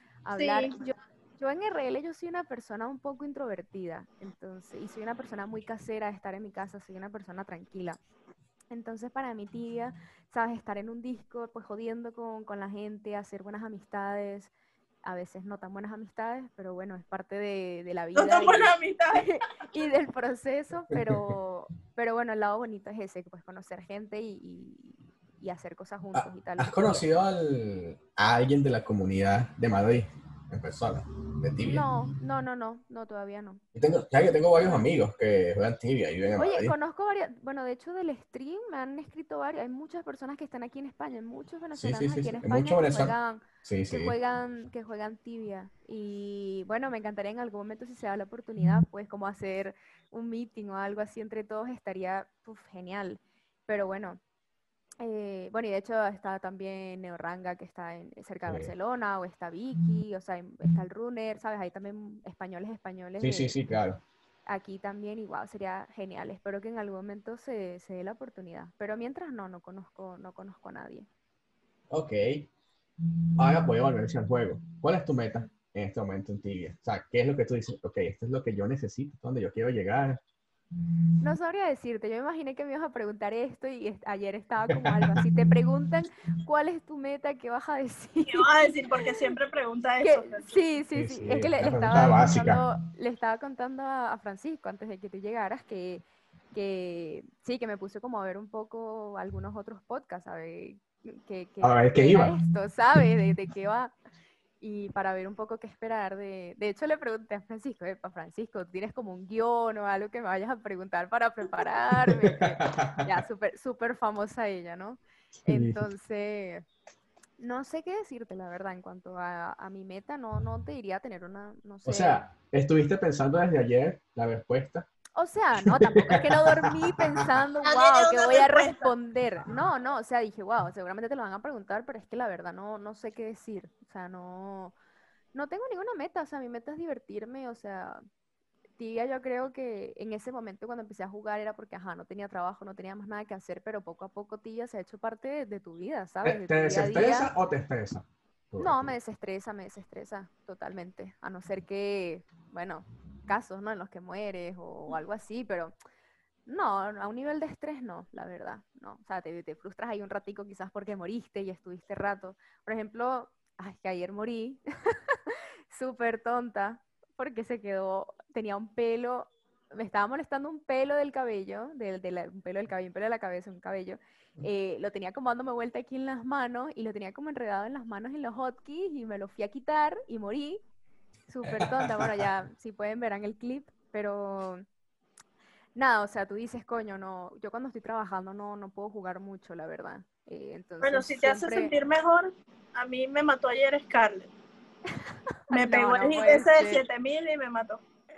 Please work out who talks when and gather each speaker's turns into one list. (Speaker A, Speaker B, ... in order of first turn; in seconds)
Speaker A: 0.2-8.0, 8.7-14.5, 15.0-27.0, 31.6-33.6, 34.6-34.8, 36.4-54.2, 55.0-63.5, 64.5-71.1, 81.2-88.9, 90.0-103.9, 104.6-116.6, 117.4-122.2, 125.2-134.8, 135.3-138.0, 138.8-147.3, 148.6-155.7, 156.4-180.6, 181.3-184.7, 185.7-191.7, 195.5-196.8
Speaker B: 0.3-0.7, 18.1-19.4, 88.3-90.5, 127.6-128.9, 190.8-194.3, 195.5-197.8
Speaker C: 20.9-21.3, 26.1-31.9, 33.7-36.7, 41.7-44.1, 58.5-58.7, 63.2-64.0, 71.9-72.5, 73.4-80.2, 84.7-85.2, 90.9-92.6, 101.6-102.4, 112.2-113.1, 115.5-115.8, 121.8-124.9, 125.7-126.5, 146.2-148.9, 181.4-182.3